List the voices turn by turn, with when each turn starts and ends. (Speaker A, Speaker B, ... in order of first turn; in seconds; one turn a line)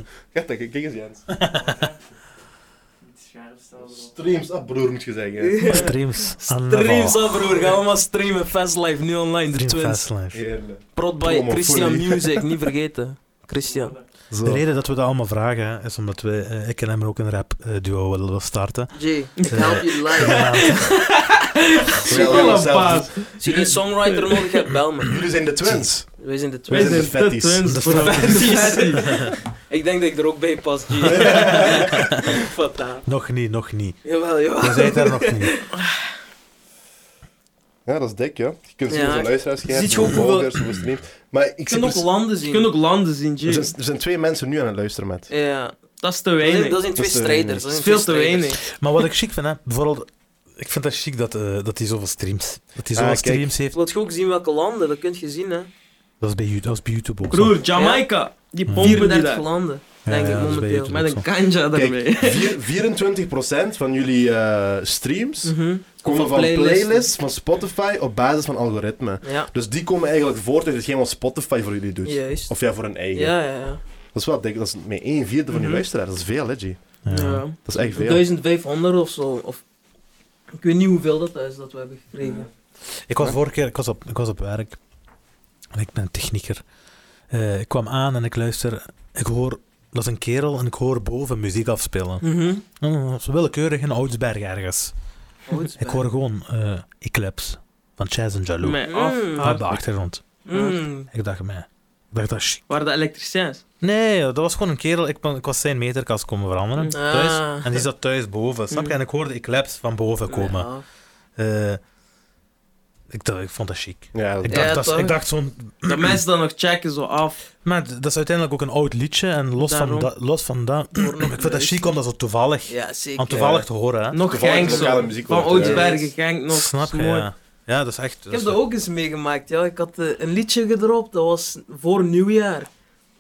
Speaker A: 0.3-1.3
Speaker B: 1.3-1.8
Speaker C: 1.5-1.9
Speaker C: 3.0-4.1
Speaker A: 3.8-5.6
Speaker D: 5.4-10.1
Speaker B: 5.6-7.7
Speaker B: 9.5-10.4
Speaker A: 10.3-12.4
Speaker D: 10.9-13.9
Speaker C: 13.7-14.0
Speaker A: 14.3-14.6
Speaker B: 14.4-20.9
Speaker D: 18.9-20.8
Speaker E: 19.5-24.5
Speaker D: 22.0-22.8
Speaker A: 22.0-23.8
Speaker D: 23.4-25.2
Speaker A: 25.0-26.1
Speaker B: 25.6-25.9
Speaker D: 26.2-27.2
Speaker A: 26.7-28.1
Speaker E: 26.7-29.2
Speaker B: 27.6-29.3
Speaker D: 27.9-33.0
Speaker A: 31.0-32.0
Speaker B: 33.0-35.5
Speaker D: 34.0-35.7
Speaker A: 37.9-42.0
Speaker D: 38.9-40.7
Speaker D: 41.7-42.7
Speaker E: 42.4-43.7
Speaker A: 43.4-45.3
Speaker D: 45.3-45.8
Speaker E: 46.0-46.8
Speaker D: 46.4-48.6
Speaker A: 46.9-47.7
Speaker E: 47.7-48.6
Speaker B: 48.7-53.8
Speaker A: 52.9-53.5
Speaker D: 53.7-55.7
Speaker B: 56.2-57.6
Speaker E: 57.3-59.5
Speaker D: 57.7-58.0
Speaker B: 58.7-59.1
Speaker D: 58.8-60.9
Speaker B: 60.0-61.2
Speaker E: 60.2-62.6
Speaker A: 61.7-73.4
Speaker D: 65.4-67.1
Speaker D: 69.2-69.5
Speaker D: 72.0-73.8
Speaker A: 74.1-77.0
Speaker D: 75.5-75.8
Speaker B: 77.0-77.5
Speaker E: 77.1-77.6
Speaker A: 77.6-78.2
Speaker D: 77.8-79.6
Speaker D: 80.6-82.5
Speaker B: 83.0-84.8
Speaker B: 85.7-86.6
Speaker B: 87.3-92.2
Speaker D: 92.2-92.6
Speaker B: 92.8-94.9
Speaker D: 95.5-96.0
Speaker B: 95.8-100.3
Speaker E: 98.6-99.6
Speaker D: 98.8-99.6
Speaker D: 100.5-101.1
Speaker E: 100.5-100.8
Speaker B: 101.1-102.6
Speaker E: 102.7-103.6
Speaker B: 103.8-110.7
Speaker D: 106.9-107.8
Speaker E: 108.7-109.0
Speaker D: 110.3-110.8
Speaker B: 111.4-111.8
Speaker B: 113.1-116.2
Speaker A: 114.1-114.8
Speaker D: 114.5-115.2
Speaker E: 115.8-117.4
Speaker B: 117.6-124.2
Speaker E: 119.6-120.1
Speaker D: 120.9-122.0
Speaker D: 122.7-123.6
Speaker A: 123.3-123.6
Speaker E: 124.1-127.3
Speaker A: 124.2-126.0
Speaker D: 124.5-126.1
Speaker B: 126.5-128.6
Speaker D: 128.3-132.7